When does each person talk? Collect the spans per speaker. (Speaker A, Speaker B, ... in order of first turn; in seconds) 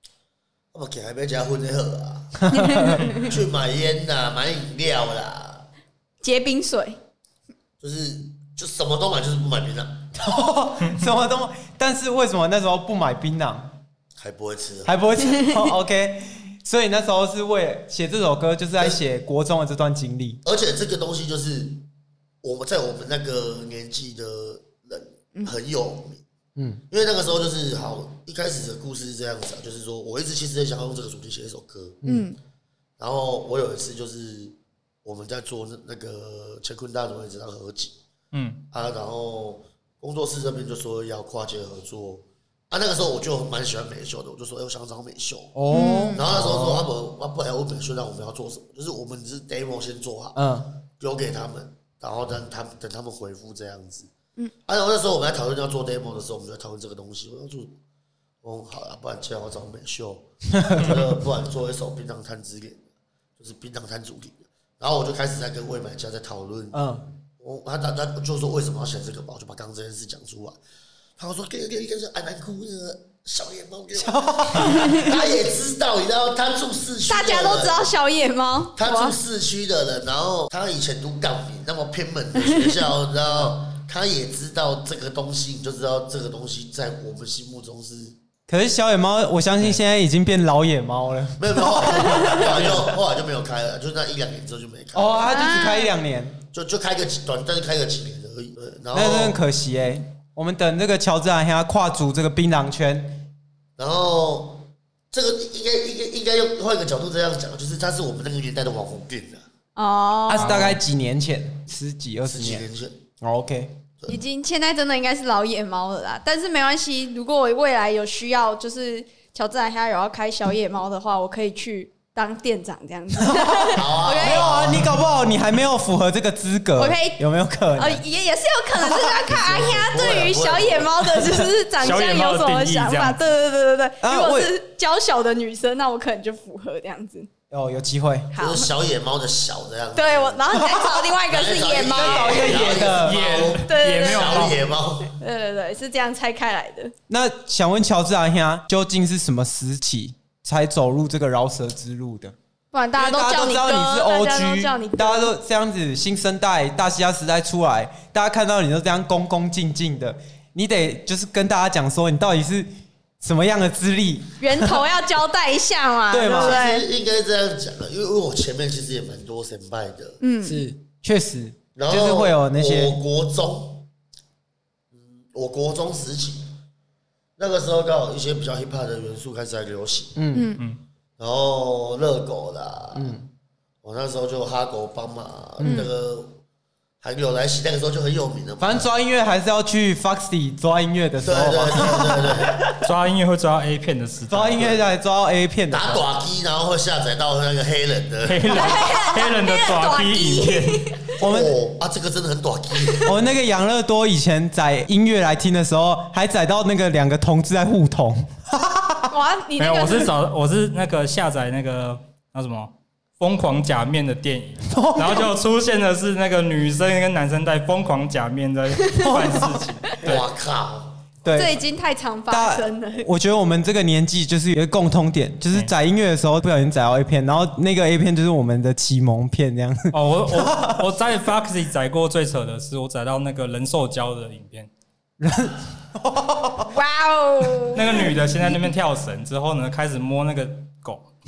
Speaker A: 0.7-5.7, 7.8-10.1, 14.2-15.0, 20.4-21.9, 22.4-26.2, 26.9-32.0, 33.0-38.0, 38.7-45.5, 46.1-50.4, 51.0-54.1, 54.7-57.8, 58.4-62.9, 63.4-66.8, 67.4-70.6, 71.2-77.8, 78.8-88.2, 91.4-95.3, 96.5-99.4, 103.8-109.4, 112.2-113.0, 123.7-125.0, 129.2-131.1, 138.4-140.7, 141.3-145.2, 166.4-170.2, 171.8-173.9, 174.9-176.5, 177.4-180.2, 181.2-183.2, 183.8-186.4, 187.0-188.9, 191.2-192.6, 195.7-198.6, 201.2-203.1, 220.0-221.1
Speaker B: 2.4-3.0, 10.2-13.8, 14.9-20.4, 26.6-26.8, 45.5-46.9, 50.4-50.7, 60.6-61.0, 66.7-67.1, 74.0-75.1, 88.5-92.8, 95.0-96.4, 98.9-103.2, 110.3-112.7, 113.2-113.8, 123.3-128.0, 128.8-129.2, 134.0-134.6, 137.5-138.3, 140.5-140.9, 141.8-143.2, 147.1-152.3, 153.0-162.7, 163.2-164.8, 166.1-166.6, 170.4-173.0, 180.2-180.5, 182.9-183.3, 185.6-185.9, 188.6-192.7, 194.3-196.0, 201.2-201.5, 203.1-209.1, 214.7-215.3, 219.1-219.5, 221.2-221.6, 222.3-230.8, 235.2-236.7
Speaker C: 2.5-3.3, 6.2-7.0, 15.3-15.7, 32.0-32.4, 45.7-46.2, 74.6-75.2, 77.1-79.2, 92.0-92.4, 95.3-95.9, 109.8-110.6, 114.1-124.5, 126.8-127.2, 127.8-137.3, 138.3-138.7, 140.0-142.6, 143.7-144.6, 145.1-146.9, 152.7-155.3, 164.4-166.9, 170.2-170.6, 180.3-180.6, 185.6-185.9, 198.5-201.2, 209.1-210.1, 221.3-223.1, 236.7-238.2
Speaker D: 38.3-38.7, 92.6-92.9, 110.4-110.8, 131.8-133.2, 142.8-144.6, 192.7-194.8, 198.3-200.9, 209.6-220.3, 229.9-234.7, 237.7-241.1